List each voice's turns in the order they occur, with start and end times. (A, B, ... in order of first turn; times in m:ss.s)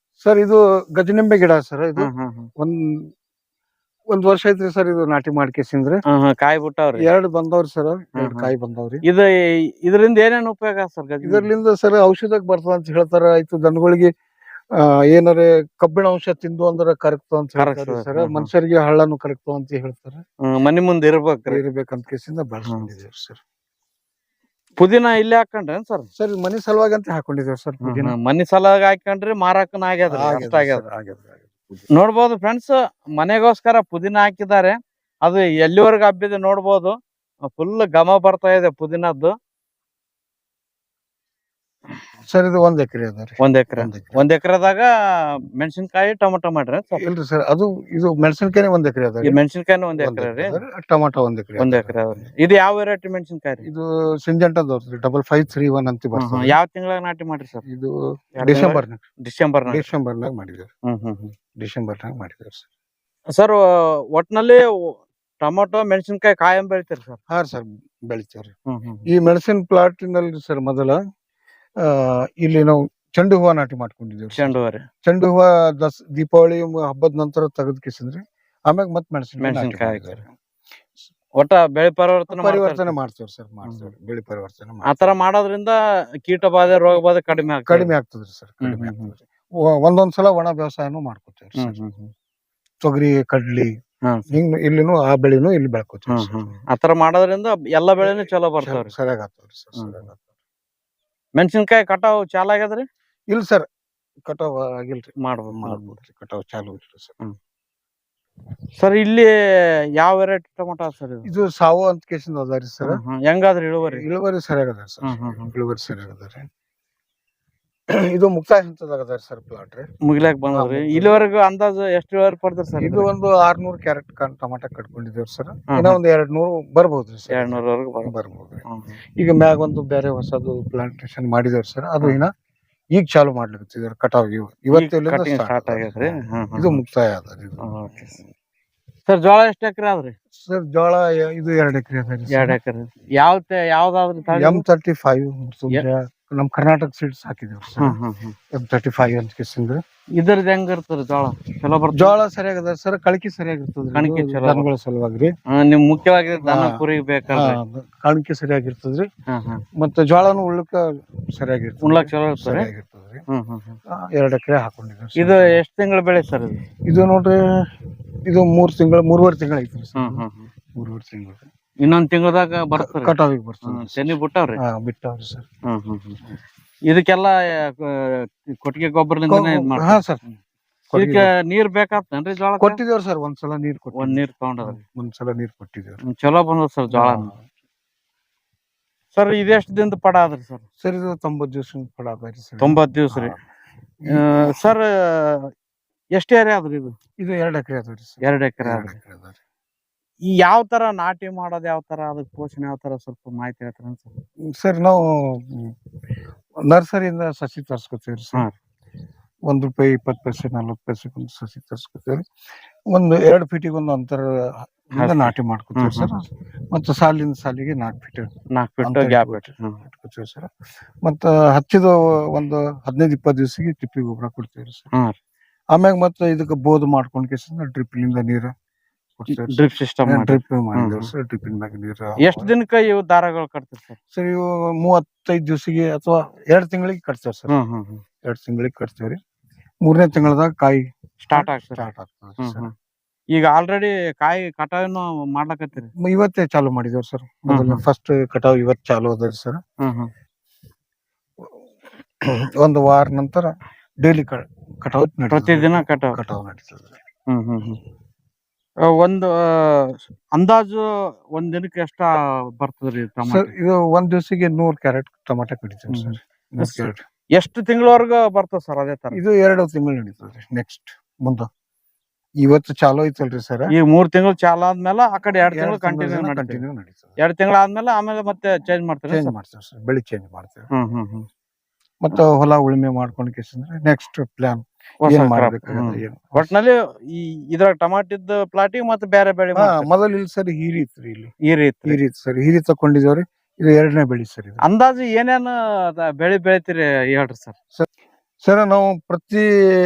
0:00.2-0:03.1 A
0:02.0-0:02.5 B
0:04.1-0:06.0 A
0:06.1-0:07.1 B
0:07.0-0:09.0 A
0:08.2-0:08.5 B
0:09.8-0:11.5 B
0:11.2-0:14.1 A
0:14.8-0:20.2 A
0:17.6-0:18.5 B
0:20.5-0:21.6 B
0:21.5-0:23.4 A
0:24.8-0:26.1 B
0:26.2-0:28.2 A
0:27.9-0:30.8 B
0:30.1-0:31.9 A
0:31.9-0:37.0 B
0:37.5-0:39.3 B
0:42.3-0:44.2 A
0:43.4-0:44.9 B
0:45.6-0:47.0 B
0:47.0-0:49.4 A
0:49.2-0:50.6 B
0:50.0-0:52.3 A
0:51.6-0:53.7 B
0:53.6-0:56.6 A
0:56.2-0:57.6 B
0:57.6-0:59.0 A
0:58.4-0:59.9 B
0:59.7-1:00.7 A
1:00.9-1:01.3 B
1:01.6-1:02.6 A
1:03.3-1:03.6 B
1:04.1-1:04.6 B
1:05.4-1:07.2 B
1:07.3-1:08.5 A
1:08.7-1:09.0 B
1:09.1-1:11.0 A
1:11.8-1:20.3 A
1:14.4-1:14.8 B
1:19.4-1:20.2 B
1:21.4-1:23.0 B
1:22.3-1:25.1 A
1:24.9-1:27.9 B
1:27.4-1:31.8 A
1:28.6-1:29.1 B
1:31.6-1:32.1 B
1:32.8-1:33.7 A
1:34.3-1:36.5 A
1:36.1-1:38.9 B
1:38.0-1:40.2 A
1:41.4-1:42.8 B
1:43.3-1:43.7 A
1:44.2-1:47.1 A
1:45.2-1:46.0 B
1:48.8-1:49.3 B
1:50.0-1:51.3 B
1:51.2-1:53.0 A
1:52.8-1:54.0 B
1:53.9-1:56.5 A
1:55.0-1:55.5 B
1:58.0-1:59.9 A
2:00.1-2:03.1 B
2:00.5-2:01.1 A
2:02.8-2:08.6 A
2:05.7-2:06.0 B
2:07.3-2:08.1 B
2:08.7-2:09.0 B
2:09.2-2:12.3 A
2:13.0-2:17.6 A
2:14.7-2:16.8 B
2:17.6-2:18.2 B
2:19.1-2:20.1 B
2:20.4-2:22.6 A
2:22.3-2:24.6 B
2:24.3-2:28.0 A
2:27.8-2:28.4 B
2:28.5-2:29.8 A
2:30.2-2:32.2 B
2:31.9-2:35.3 A
2:34.0-2:34.7 B
2:35.5-2:37.6 B
2:36.4-2:39.1 A
2:39.3-2:39.6 B
2:39.8-2:43.2 A
2:41.8-2:42.7 B
2:43.3-2:43.8 B
2:43.9-2:45.6 A
2:45.2-2:46.6 B
2:46.9-2:47.4 A
2:48.3-2:50.2 A
2:50.0-2:50.5 B
2:50.8-2:51.5 A
2:51.8-2:53.1 B
2:52.8-2:55.5 A
2:53.7-2:54.6 B
2:55.7-2:56.2 B
2:56.9-3:00.3 B
2:59.3-3:00.2 A
3:00.9-3:01.3 A
3:01.0-3:02.8 B
3:02.6-3:06.0 A
3:04.0-3:04.8 B
3:06.1-3:07.3 B
3:06.9-3:07.4 A
3:09.2-3:10.6 B
3:10.8-3:13.4 A
3:12.6-3:13.4 B
3:14.0-3:14.5 A
3:14.1-3:15.5 B
3:16.2-3:17.0 B
3:17.2-3:19.4 A
3:18.2-3:18.9 B
3:20.3-3:24.1 B
3:24.5-3:25.7 A
3:26.7-3:28.5 A
3:29.5-3:32.2 A
3:32.9-3:34.3 A
3:34.9-3:38.3 A
3:35.0-3:36.1 B
3:38.6-3:39.8 B
3:38.8-3:40.5 A
3:41.0-3:44.9 A
3:45.8-3:48.5 A
3:49.2-3:52.5 A
3:49.3-3:51.1 B
3:52.2-3:54.0 B
3:54.1-3:57.5 A
3:57.5-3:58.0 B
3:58.2-3:59.2 A
3:59.8-4:02.7 A
4:01.2-4:01.9 B
4:02.4-4:02.7 B
4:03.3-4:05.9 B
4:06.0-4:09.6 A
4:07.5-4:07.8 B
4:09.8-4:10.1 B
4:12.3-4:17.0 A
4:15.3-4:16.2 B
4:17.3-4:17.8 B
4:18.9-4:23.5 B
4:23.3-4:27.0 A
4:25.9-4:29.2 B
4:29.1-4:31.5 A
4:32.4-4:33.7 A
4:33.7-4:36.6 B
4:35.5-4:37.1 A
4:37.2-4:39.3 B
4:39.1-4:40.7 A
4:40.7-4:41.3 B
4:42.0-4:46.5 A
4:45.0-4:49.9 B
4:49.6-4:51.3 A
4:51.5-4:52.0 B
4:51.9-4:54.6 A
4:54.6-4:57.5 B
4:58.4-4:59.5 A